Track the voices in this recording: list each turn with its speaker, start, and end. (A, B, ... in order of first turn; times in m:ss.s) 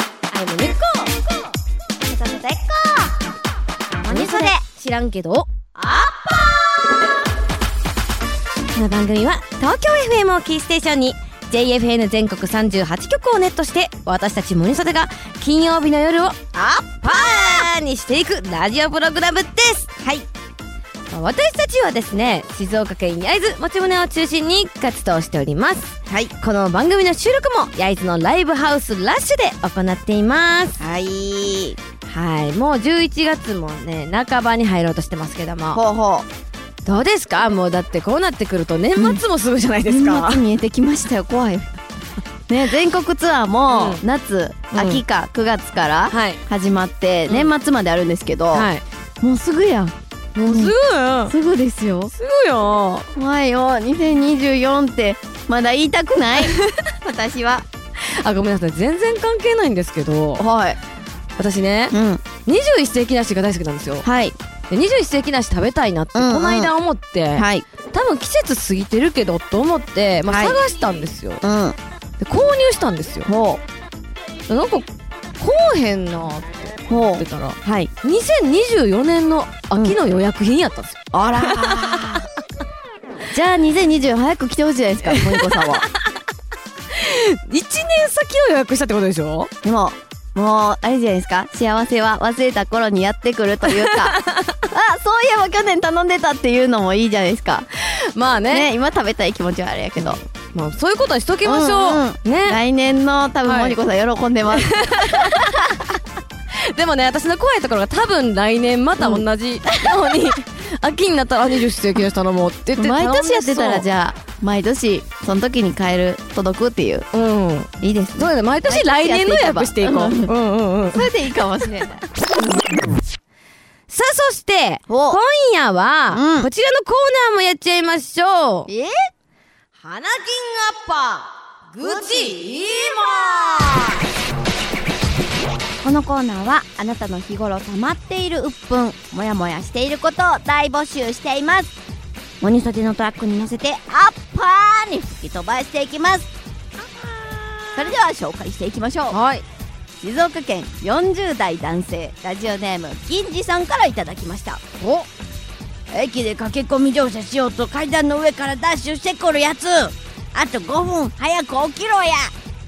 0:00.3-0:01.2 A
0:02.0-0:03.2 B
0:04.0-0:04.6 B
0:04.1-0:05.5 A
0:05.7-0:07.2 B
0:08.7-0:16.4 A
0:16.5-0:17.7 B
0:17.0-0:20.0 A
0:20.0-0:20.2 B
0:21.1-0:30.8 A
0:30.8-0:31.8 B
0:32.0-0:35.8 A
0:35.7-0:36.2 B
0:36.8-0:40.4 A
0:39.0-0:39.2 B
0:39.8-0:41.8 B
0:42.5-0:48.7 B
0:43.7-0:44.0 A
0:44.7-0:45.0 A
0:46.1-0:46.4 A
0:48.5-0:48.8 A
0:49.2-0:49.9 B
0:50.4-0:51.3 A
0:50.4-0:50.7 B
0:51.2-0:52.1 B
0:52.1-0:53.1 A
0:53.1-0:57.6 B
0:56.4-0:56.7 A
0:58.0-1:00.4 A
1:00.4-1:00.8 B
1:01.4-1:01.9 A
1:01.9-1:02.2 B
1:02.4-1:04.0 A
1:04.0-1:04.4 B
1:04.7-1:11.4 A
1:06.1-1:06.7 B
1:07.4-1:07.6 B
1:10.2-1:10.6 B
1:11.4-1:11.8 B
1:12.2-1:13.3 A
1:13.2-1:13.6 B
1:14.5-1:14.9 A
1:15.4-1:22.2 A
1:16.9-1:17.9 B
1:21.1-1:22.2 B
1:23.3-1:25.8 B
1:25.0-1:26.0 A
1:26.9-1:29.5 A
1:29.6-1:34.2 B
1:33.8-1:34.6 A
1:34.7-1:37.7 B
1:37.9-1:38.7 A
1:38.5-1:40.2 B
1:40.0-1:42.6 A
1:41.4-1:45.8 B
1:43.4-1:43.8 A
1:44.5-1:45.9 A
1:46.5-1:53.8 A
1:49.0-1:50.3 B
1:52.8-1:57.1 B
1:57.1-2:01.1 A
1:57.8-2:00.3 B
2:00.8-2:02.0 B
2:03.9-2:08.7 A
2:04.9-2:05.2 B
2:06.1-2:06.5 B
2:08.7-2:08.9 B
2:09.8-2:14.0 A
2:15.8-2:21.7 B
2:22.4-2:26.3 B
2:26.8-2:27.9 A
2:27.8-2:29.2 B
2:29.1-2:29.4 A
2:30.0-2:34.6 B
2:34.8-2:35.1 A
2:35.9-2:42.3 B